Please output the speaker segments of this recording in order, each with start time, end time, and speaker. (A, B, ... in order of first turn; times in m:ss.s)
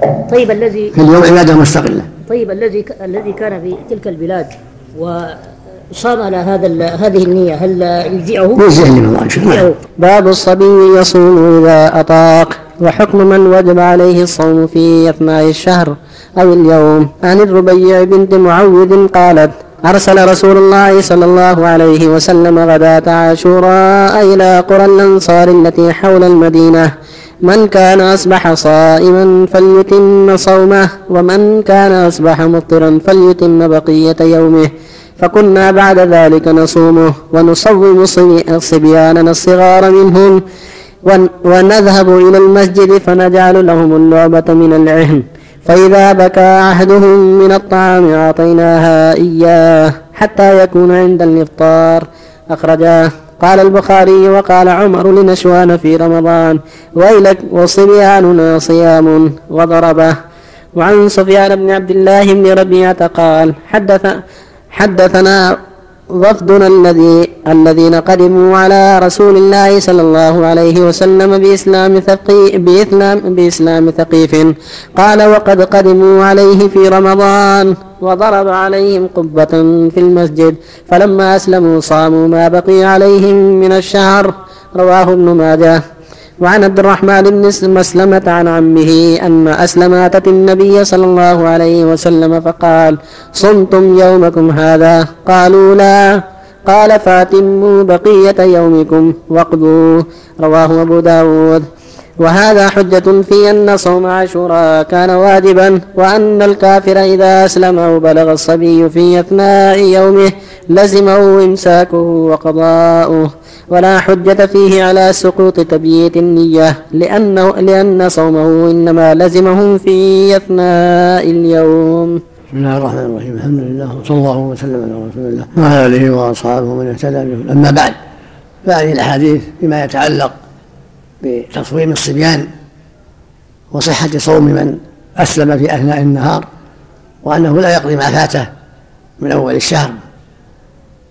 0:00.3-0:00.9 A
0:00.9-0:02.1 B
0:02.3-0:08.6 A
0:08.6-0:09.7 B
0:09.4-0:09.8 A
0:10.0-0:26.9 C
0:27.4-0:34.7 C
0:35.2-0:40.4 C
0:41.0-1:00.2 C
1:00.8-1:04.2 C
1:04.8-1:05.4 C
1:06.1-1:25.8 C
1:26.4-1:36.1 C
1:36.7-1:41.7 C
1:42.2-2:02.2 C
2:02.5-2:08.0 B
2:08.6-2:10.3 B
2:11.2-2:12.5 B
2:13.7-2:16.5 B
2:17.2-2:18.5 B
2:19.2-2:20.0 B